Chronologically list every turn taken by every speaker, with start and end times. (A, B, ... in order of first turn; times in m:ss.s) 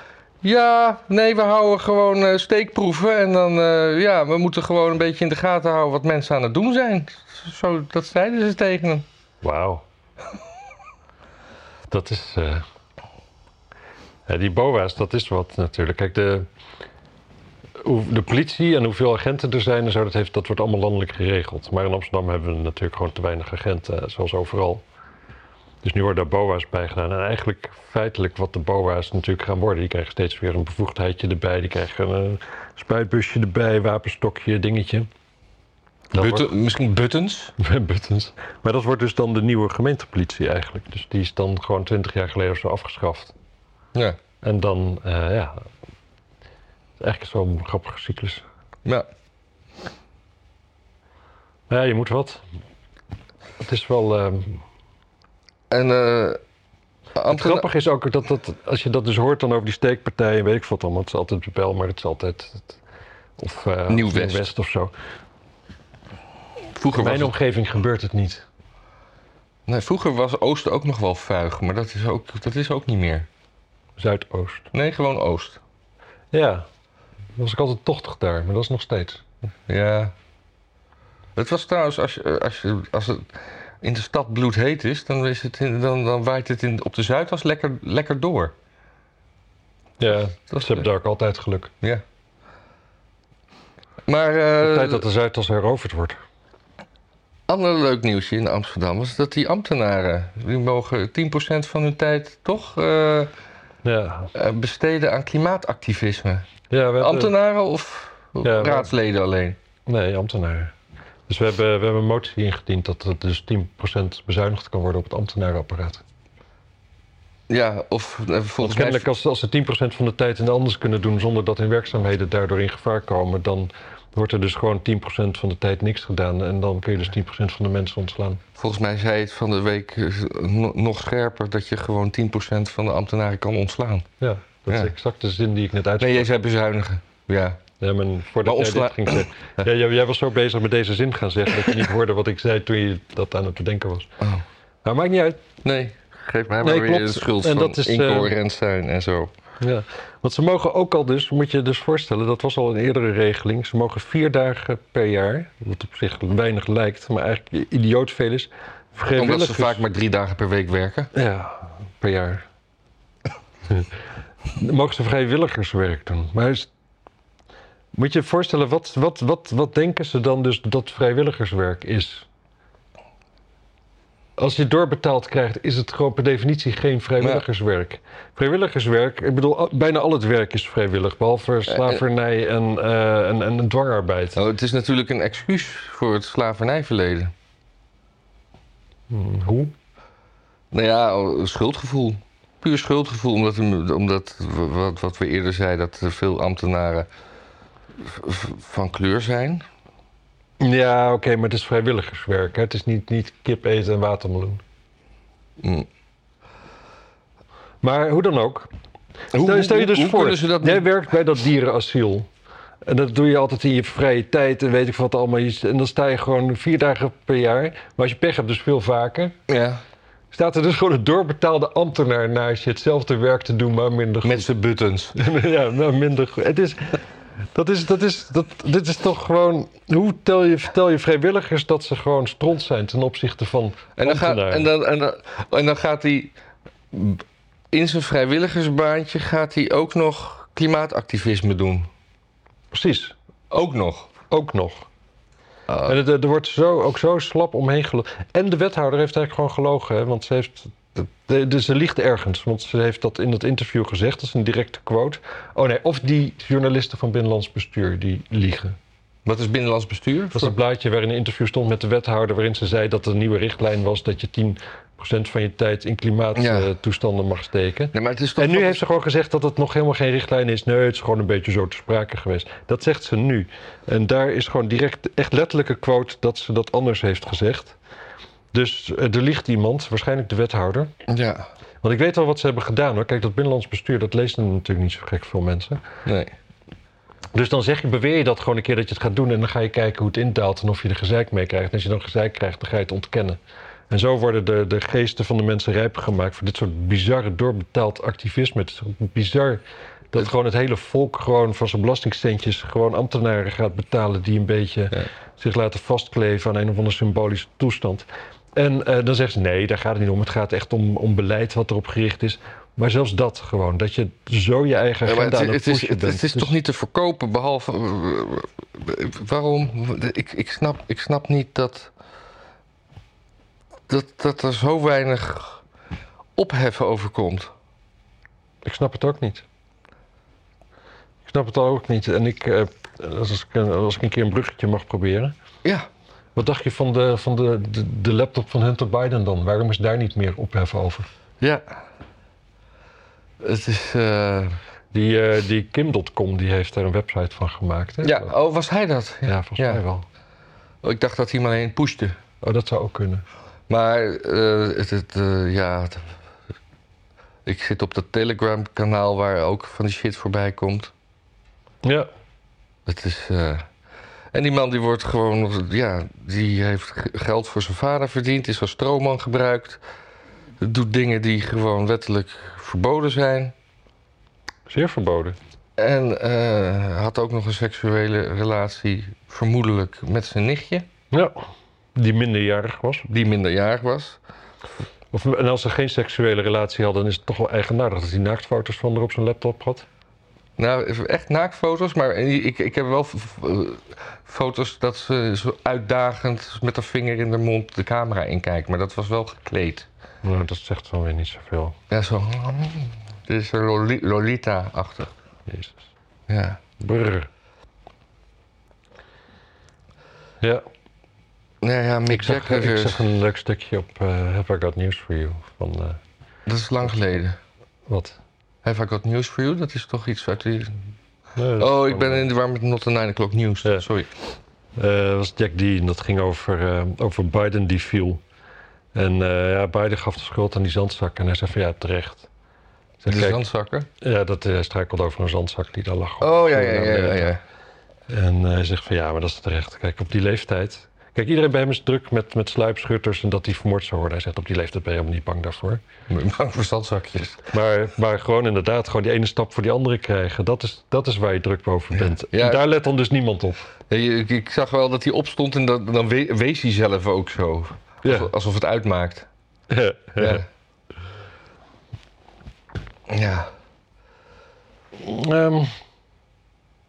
0:00.4-0:09.1 A
0:09.4-0:09.8 B
0:11.9-0:12.6 B
0:14.3-0:16.5 B
0:17.8-0:24.8 B
0:25.8-0:35.1 B
0:36.1-0:36.5 B
0:36.1-0:37.6 A
0:37.6-0:43.3 B
0:43.9-0:44.2 A
0:44.4-0:45.7 B
0:47.0-0:48.4 B
0:51.7-0:52.4 B
0:53.6-0:54.6 B
0:55.7-0:56.4 A
0:57.2-0:57.7 A
0:57.3-1:02.8 B
1:03.4-1:04.9 B
1:03.9-1:04.5 A
1:06.7-1:07.3 A
1:06.9-1:08.5 B
1:09.7-1:13.3 A
1:14.0-1:14.7 B
1:14.7-1:15.6 A
1:16.3-1:16.7 B
1:17.4-1:19.2 B
1:19.7-1:20.1 A
1:21.4-1:28.6 A
1:30.0-1:31.7 B
1:30.5-1:30.9 A
1:34.1-1:35.0 A
1:34.6-1:36.2 B
1:37.5-1:43.3 A
1:43.8-1:44.3 B
1:44.3-1:46.5 A
1:46.7-1:47.3 B
1:47.0-1:49.6 A
1:48.4-1:48.9 B
1:49.9-1:50.8 B
1:51.3-1:56.0 B
1:57.5-1:59.1 A
1:58.6-2:08.4 B
2:08.6-2:14.1 A
2:14.2-2:16.3 B
2:16.0-2:17.6 A
2:17.8-2:24.2 B
2:18.4-2:19.7 A
2:24.8-2:25.4 B
2:25.6-2:29.3 A
2:26.6-2:28.3 B
2:29.6-2:39.8 B
2:39.2-2:41.1 A
2:41.1-2:42.5 B
2:44.6-2:46.7 B
2:47.9-2:52.3 B
2:54.4-3:04.4 B
3:01.7-3:02.0 A
3:04.4-3:07.3 A
3:09.1-3:09.7 B
3:10.7-3:17.1 A
3:18.0-3:19.6 A
3:20.6-3:24.6 B
3:25.6-3:25.9 A
3:27.8-3:28.7 B
3:29.3-3:30.9 A
3:29.3-3:32.3 B
3:32.8-3:39.4 B
3:39.5-3:39.8 A
3:40.3-3:44.5 B
3:44.2-3:45.2 A
3:45.2-3:47.0 B
3:47.5-3:54.7 B
3:54.0-3:56.4 A
3:56.9-4:01.9 A
4:02.7-4:03.2 B
4:03.5-4:04.1 A
4:04.3-4:04.9 B
4:05.7-4:05.9 A
4:05.8-4:18.8 B
4:19.2-4:20.6 A
4:20.3-4:37.8 B
4:26.4-4:26.7 A
4:27.9-4:28.8 A
4:38.5-4:40.9 B
4:41.1-4:41.5 A
4:41.8-4:45.8 B
4:46.0-4:46.3 A
4:47.3-4:53.4 B
4:53.9-5:16.5 B
5:15.1-5:21.9 A
5:23.9-5:25.6 A
5:26.4-5:27.5 A
5:28.6-5:29.4 B
5:31.3-5:35.4 B
5:36.4-5:41.1 B
5:41.4-5:41.7 A
5:43.4-5:44.6 A
5:44.9-5:48.3 B
5:48.0-5:49.8 A
5:49.3-5:50.1 B
5:50.8-5:52.2 A
5:52.4-5:53.2 B
5:53.7-5:56.1 A
5:57.4-6:00.9 A
6:01.8-6:02.1 B
6:02.9-6:03.7 A
6:04.3-6:09.8 A
6:10.6-6:13.6 A
6:14.7-6:15.4 B
6:15.8-6:20.9 A
6:21.1-6:21.4 B
6:22.0-6:23.1 B
6:23.1-6:24.2 A
6:25.1-6:29.9 B
6:30.6-6:39.9 A
6:40.2-6:41.8 B
6:41.9-6:45.1 A
6:45.5-6:45.9 B
6:46.3-6:46.6 A
6:46.8-6:47.3 B
6:51.6-6:53.1 A
6:52.1-6:56.0 B
6:56.5-6:57.4 A
6:57.9-6:58.2 B
6:58.6-7:00.9 A
7:01.4-7:02.3 B
7:01.6-7:04.1 A
7:04.8-7:08.2 B
7:08.9-7:12.3 B
7:13.0-7:13.4 B
7:13.1-7:13.9 A
7:14.0-7:17.3 B
7:16.2-7:17.4 A
7:18.1-7:25.8 B
7:26.1-7:27.5 A
7:27.5-7:33.7 B
7:31.9-7:32.7 A
7:33.9-7:39.3 A
7:38.0-7:38.3 B
7:39.7-7:40.4 B
7:40.2-7:40.5 A
7:43.1-7:43.5 A
7:45.0-7:45.7 B